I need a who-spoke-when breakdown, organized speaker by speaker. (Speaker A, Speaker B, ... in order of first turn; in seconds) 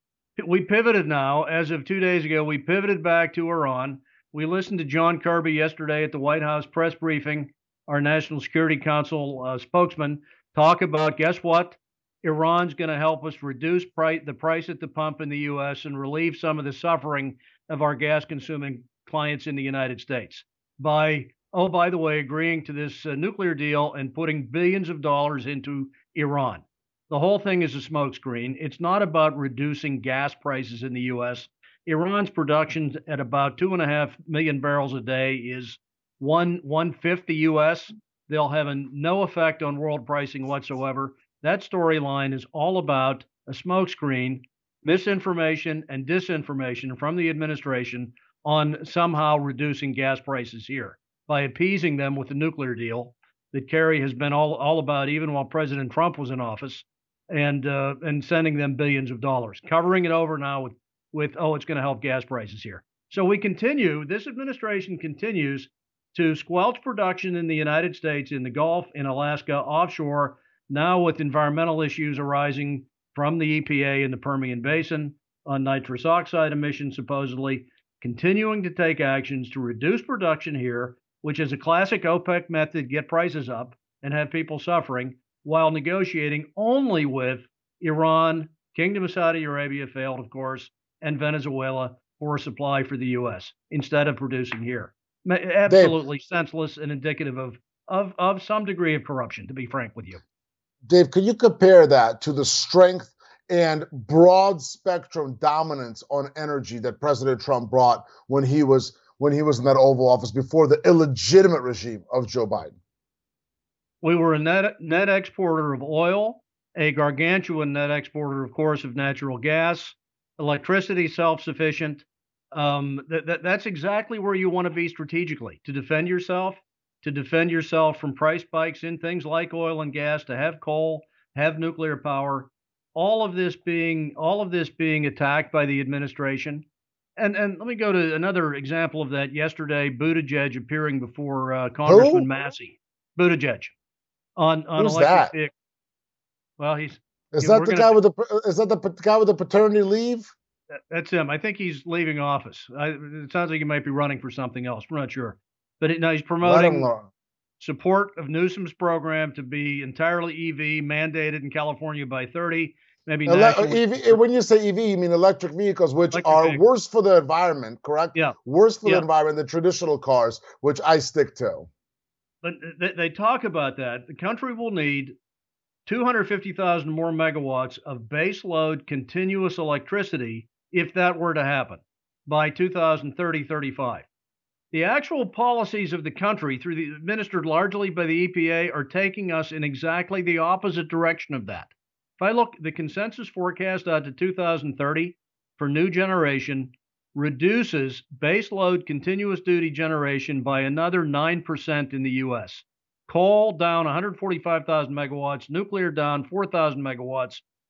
Speaker A: 0.4-100.2, 114.0-136.7, 137.2-143.7, 144.4-145.5, 146.6-147.9, 150.9-156.9, 157.6-164.2, 166.1-166.6, 168.1-169.1, 172.4-175.2, 175.9-184.1, 184.7-207.4
Speaker B: 95.7-96.0, 100.9-112.8, 141.8-142.3, 144.8-145.3, 147.3-150.3, 156.4-157.1, 163.3-171.7